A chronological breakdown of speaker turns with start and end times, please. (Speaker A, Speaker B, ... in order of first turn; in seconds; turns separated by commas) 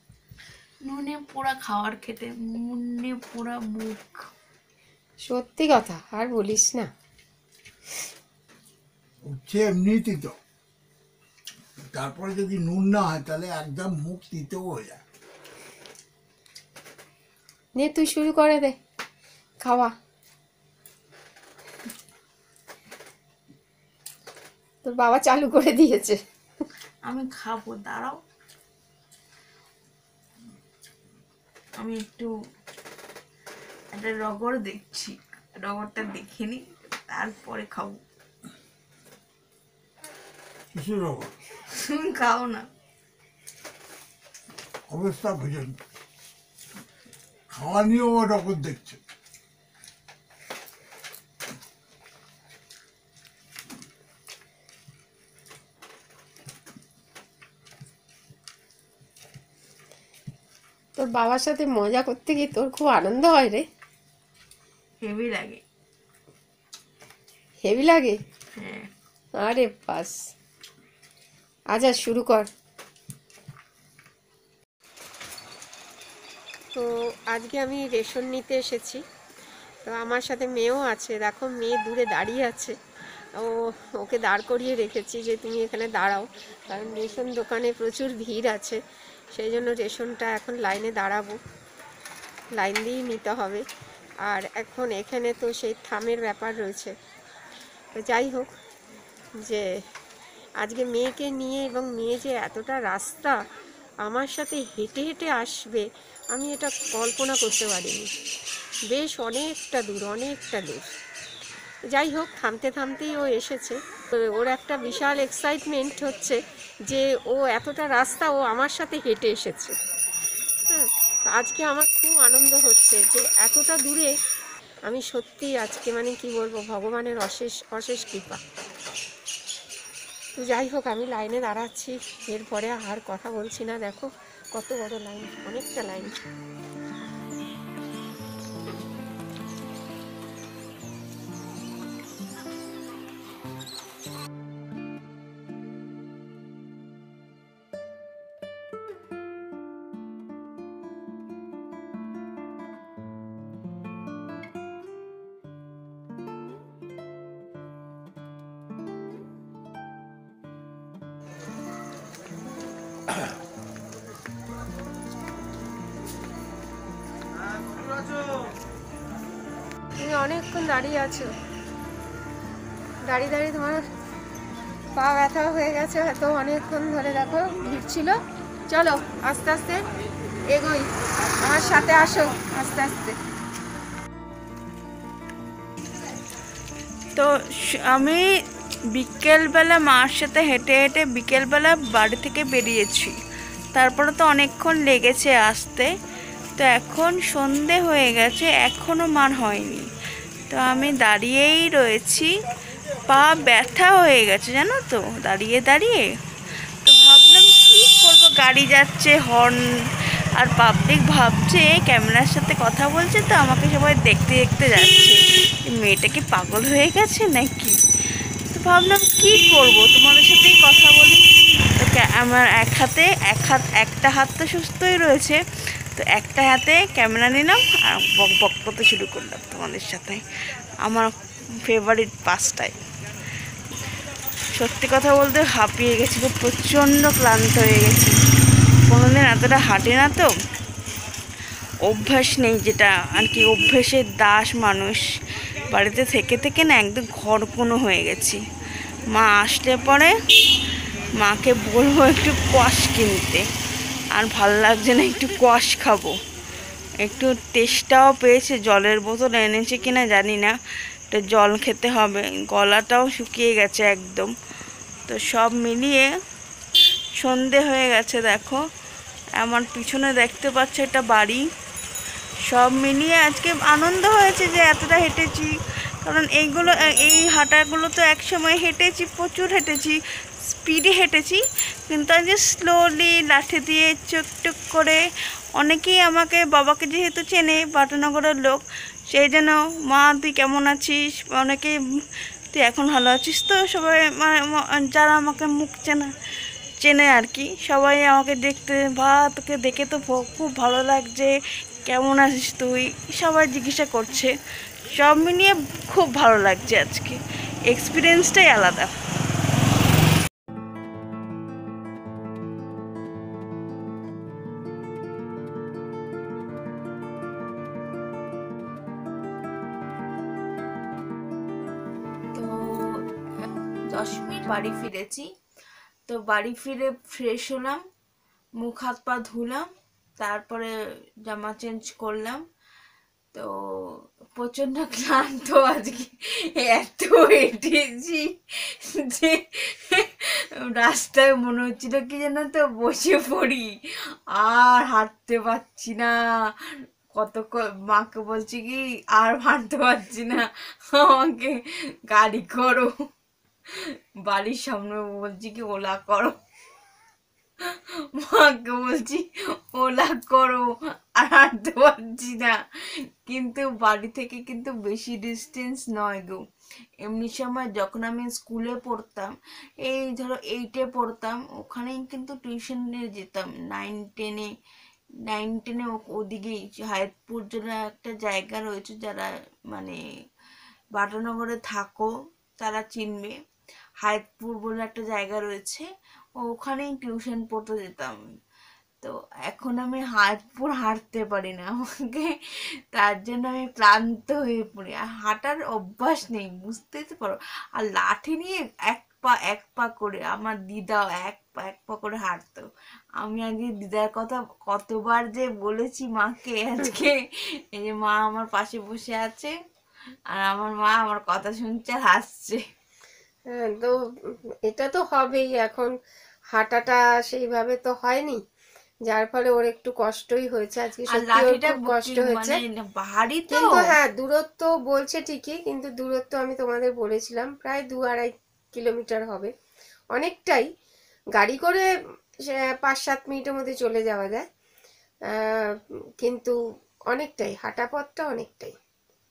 Speaker A: 0.8-4.3, Speaker B: 5.2-6.9, Speaker C: 9.2-10.4, Speaker C: 11.9-15.0, Speaker B: 17.8-18.7, Speaker B: 19.6-19.9, Speaker B: 24.8-26.2, Speaker A: 27.1-28.2, Speaker A: 31.8-32.3, Speaker A: 33.9-38.0, Speaker C: 40.7-41.3, Speaker A: 41.7-42.7, Speaker C: 44.9-45.8, Speaker C: 47.5-49.0, Speaker B: 61.0-63.6, Speaker A: 65.0-65.6, Speaker B: 67.6-68.2, Speaker A: 68.5-68.9, Speaker B: 69.4-70.2, Speaker B: 71.7-72.5, Speaker B: 76.7-79.0, Speaker B: 79.8-82.7, Speaker B: 83.4-88.8, Speaker B: 89.3-91.4, Speaker B: 92.5-93.6, Speaker B: 94.3-96.9, Speaker B: 97.9-98.5, Speaker B: 100.6-103.4, Speaker B: 104.0-108.1, Speaker B: 108.9-110.9, Speaker B: 111.9-116.4, Speaker B: 116.9-119.7, Speaker B: 120.7-124.1, Speaker B: 124.9-128.4, Speaker B: 130.3-136.1, Speaker B: 170.0-171.3, Speaker B: 173.1-173.8, Speaker B: 174.9-179.8, Speaker B: 180.5-183.2, Speaker A: 187.1-188.2, Speaker A: 188.9-193.2, Speaker A: 193.7-195.9, Speaker A: 196.6-199.8, Speaker A: 200.5-202.3, Speaker A: 203.1-206.1, Speaker A: 206.8-209.6, Speaker A: 210.4-217.8, Speaker A: 218.5-225.4, Speaker A: 225.9-230.2, Speaker A: 230.8-231.1, Speaker A: 231.6-232.8, Speaker A: 234.5-238.1, Speaker A: 238.8-240.3, Speaker A: 241.8-245.0, Speaker A: 245.7-248.4, Speaker A: 249.1-250.1, Speaker A: 251.2-253.4, Speaker A: 254.1-256.1, Speaker A: 257.0-260.5, Speaker A: 261.1-264.3, Speaker A: 265.1-266.1, Speaker A: 267.2-268.6, Speaker A: 269.4-271.4, Speaker A: 272.5-280.0, Speaker A: 280.5-285.0, Speaker A: 285.6-291.7, Speaker A: 292.5-296.1, Speaker A: 296.8-301.3, Speaker A: 301.9-304.3, Speaker A: 304.9-307.2, Speaker A: 307.7-308.9, Speaker A: 322.3-323.1, Speaker A: 323.9-325.2, Speaker A: 326.1-327.8, Speaker A: 328.6-329.7, Speaker A: 330.2-330.7, Speaker A: 331.2-332.4, Speaker A: 333.3-343.7, Speaker A: 344.3-351.6, Speaker A: 352.1-352.9, Speaker A: 354.3-356.3, Speaker A: 357.6-362.5, Speaker A: 363.2-366.4, Speaker A: 367.0-369.3, Speaker A: 369.8-374.5, Speaker A: 375.2-380.0, Speaker A: 380.9-383.3, Speaker A: 384.0-385.9, Speaker A: 386.4-388.2, Speaker A: 389.0-392.3, Speaker A: 392.9-402.6, Speaker A: 403.2-407.1, Speaker A: 407.7-409.5, Speaker A: 410.3-412.6, Speaker B: 413.5-413.9, Speaker B: 414.6-415.9, Speaker B: 416.5-418.4, Speaker B: 419.1-422.6, Speaker A: 421.1-423.9, Speaker B: 423.5-429.5, Speaker B: 430.1-430.6, Speaker B: 431.4-431.9, Speaker B: 432.5-434.4, Speaker B: 435.3-436.5, Speaker B: 437.1-438.7